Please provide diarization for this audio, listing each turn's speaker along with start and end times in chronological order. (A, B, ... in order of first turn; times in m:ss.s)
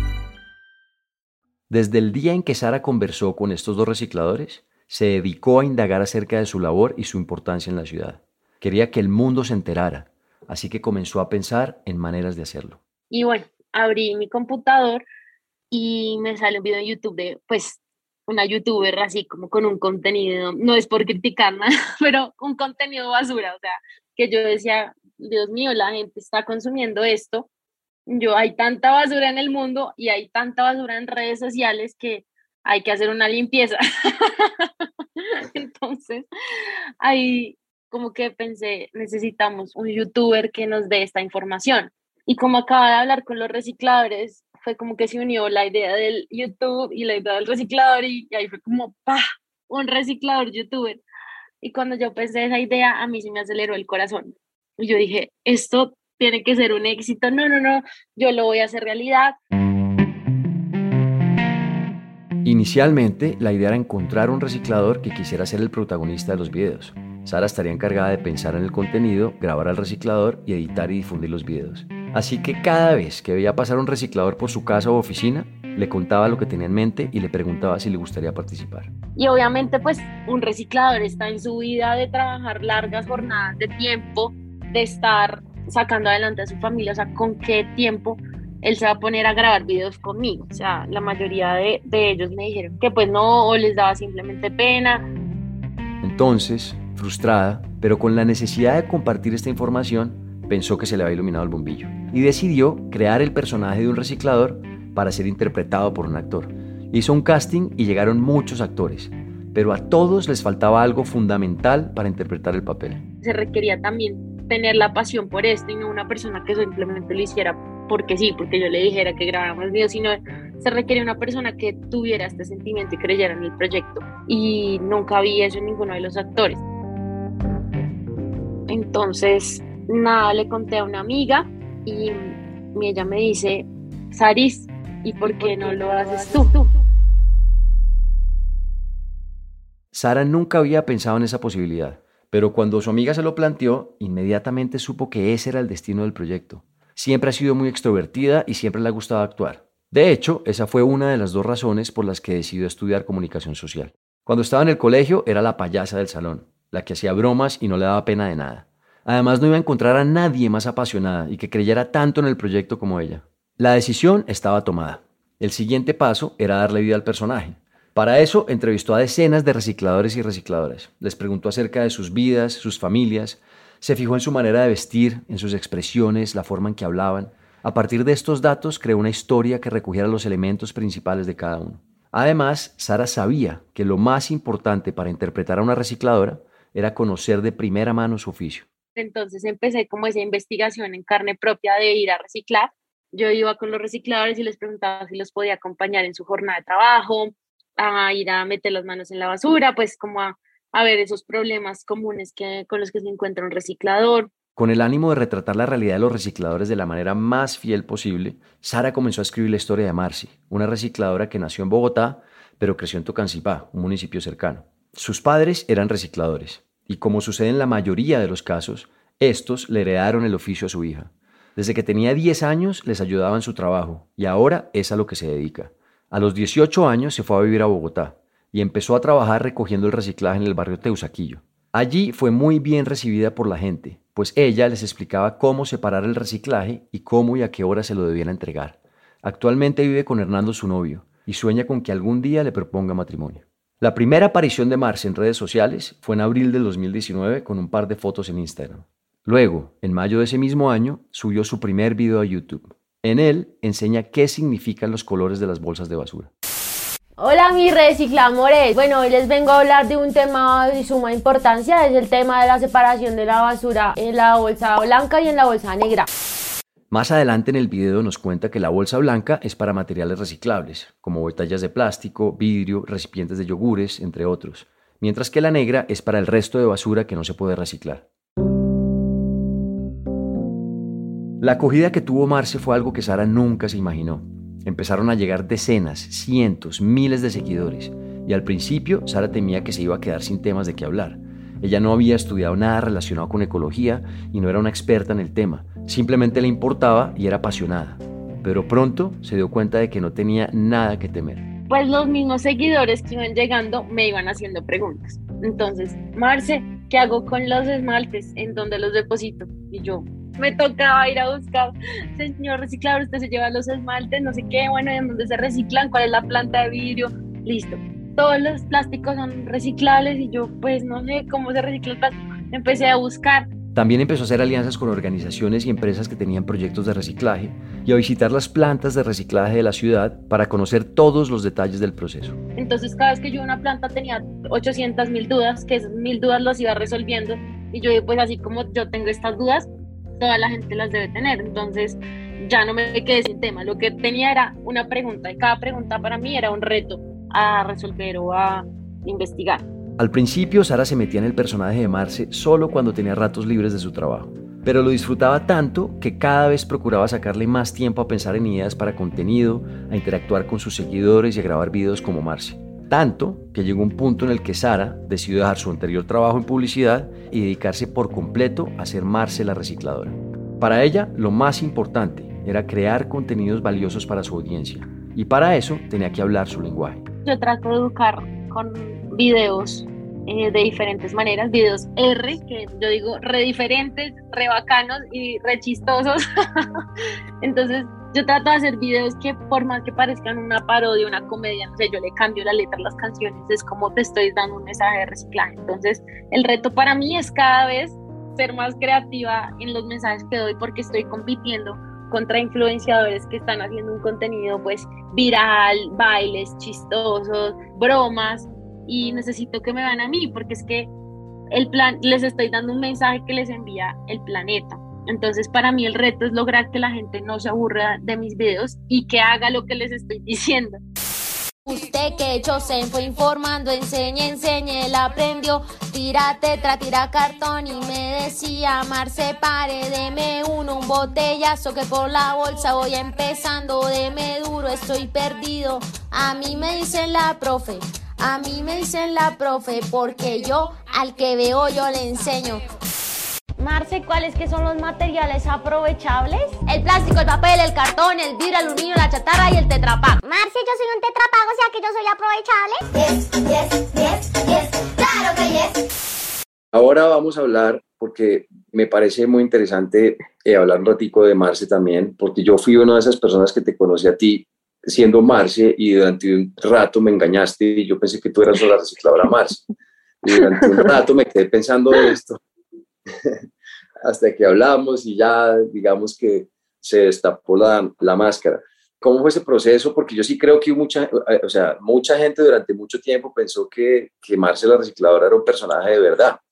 0:01.7-0:12.8 A
0:13.1-0:15.0 B
0:15.7-0:27.5 B
0:28.1-0:34.7 B
0:35.2-0:36.2 B
0:37.0-0:51.0 B
0:51.6-0:59.3 B
1:02.4-1:18.9 A
1:19.2-1:35.1 B
1:36.0-1:53.0 A
1:53.2-2:06.6 B
2:08.7-2:16.7 B
2:19.9-3:08.6 A
3:09.0-3:24.3 B
3:24.6-4:16.3 A
4:17.2-4:26.1 C
4:26.9-4:38.0 A
4:41.4-5:01.4 A
5:01.7-5:23.5 B
5:23.7-5:32.4 A
5:32.6-5:39.7 B
5:40.2-5:49.6 B
5:50.0-6:17.0 A
6:17.2-6:26.6 B
6:27.4-6:50.9 B
6:51.5-7:00.8 B
7:01.6-7:22.6 C
7:23.6-7:30.2 C
7:30.2-7:35.8 D
7:36.7-7:49.6 A
7:50.2-7:52.4 A
7:54.0-8:06.4 A